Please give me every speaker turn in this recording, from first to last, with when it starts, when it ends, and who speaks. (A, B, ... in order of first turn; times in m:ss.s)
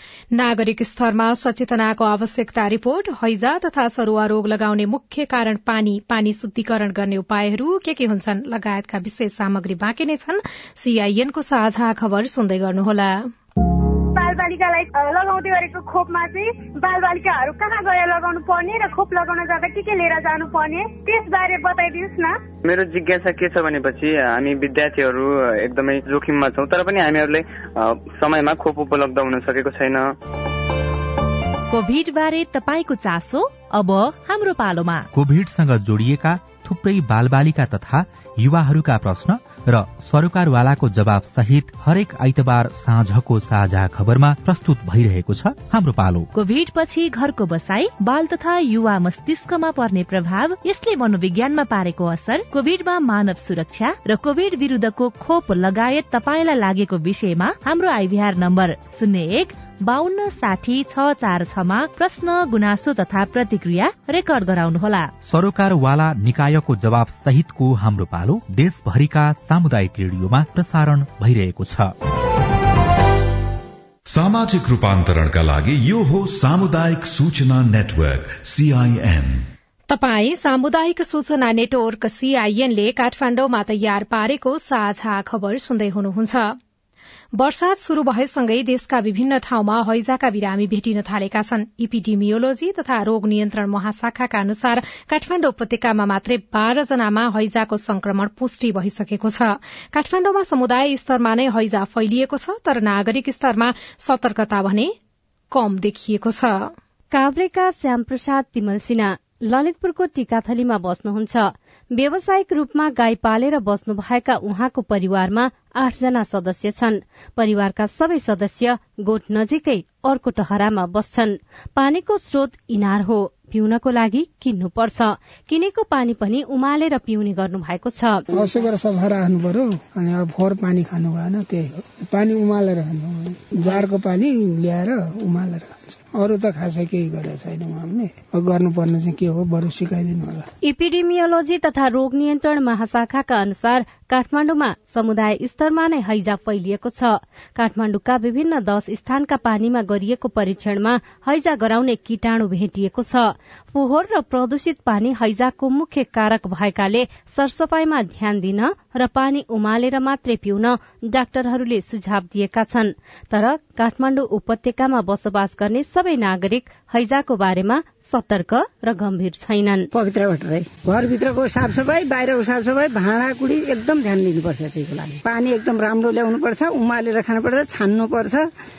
0:00.3-0:13.3 A
0:14.3-0:20.7 B
0:21.3-0:22.2 B
0:22.7-0:30.1 C
0:31.7-0:35.1 D
0:35.1-0:46.3 E
0:46.3-1:05.1 D
1:05.2-1:11.9 E
1:14.1-1:19.5 F
1:19.9-1:26.6 A
1:27.4-1:44.9 A
1:45.5-1:46.7 A
1:47.1-2:08.2 G
2:08.3-2:20.5 H
2:20.6-2:49.9 G
2:49.9-2:58.5 I